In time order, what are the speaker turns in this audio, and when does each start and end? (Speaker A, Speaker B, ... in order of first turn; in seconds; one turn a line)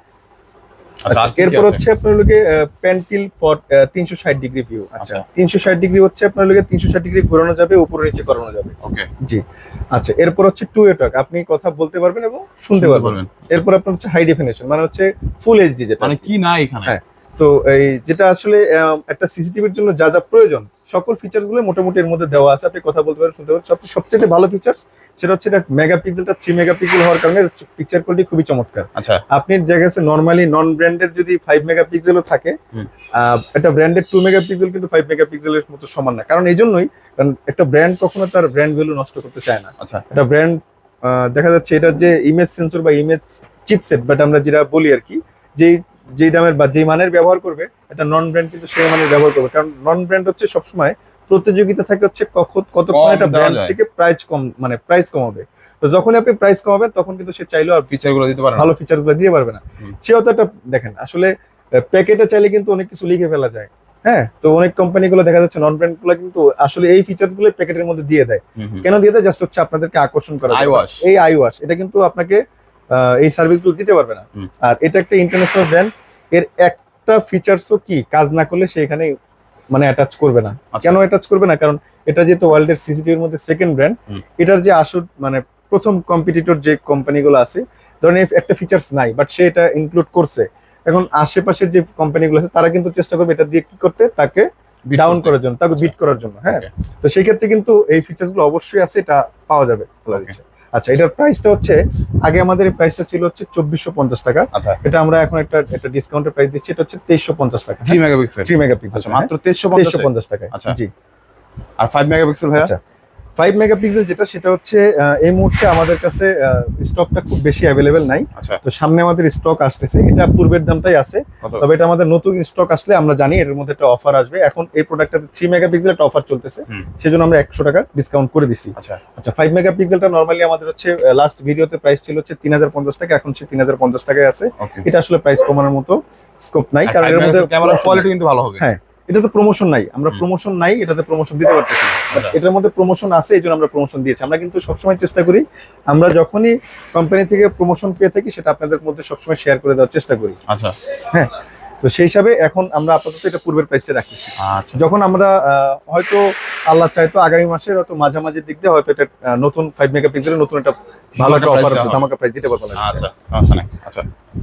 Speaker A: 1.0-1.8
Speaker B: 1.1-16.3
Speaker A: 5.0-5.2
Speaker A: 8.8-9.1
Speaker A: 12.8-13.6
Speaker A: 16.0-16.9
Speaker B: 16.9-32.6
Speaker A: 29.0-29.2
Speaker B: 33.1-57.9
Speaker A: 39.8-40.0
Speaker A: 52.9-53.8
Speaker A: 57.9-58.7
Speaker B: 58.6-79.1
Speaker A: 68.6-68.9
Speaker A: 70.5-71.0
Speaker B: 79.7-110.9
Speaker A: 80.7-81.0
Speaker A: 94.9-95.9
Speaker A: 100.1-100.4
Speaker A: 104.5-104.8
Speaker A: 107.8-110.8
Speaker A: 111.8-112.7
Speaker B: 113.4-150.4
Speaker A: 134.6-134.9
Speaker A: 136.9-138.7
Speaker A: 142.1-142.4
Speaker A: 150.5-150.8
Speaker B: 151.8-163.1
Speaker A: 154.4-154.8
Speaker A: 161.2-162.0
Speaker A: 162.8-164.1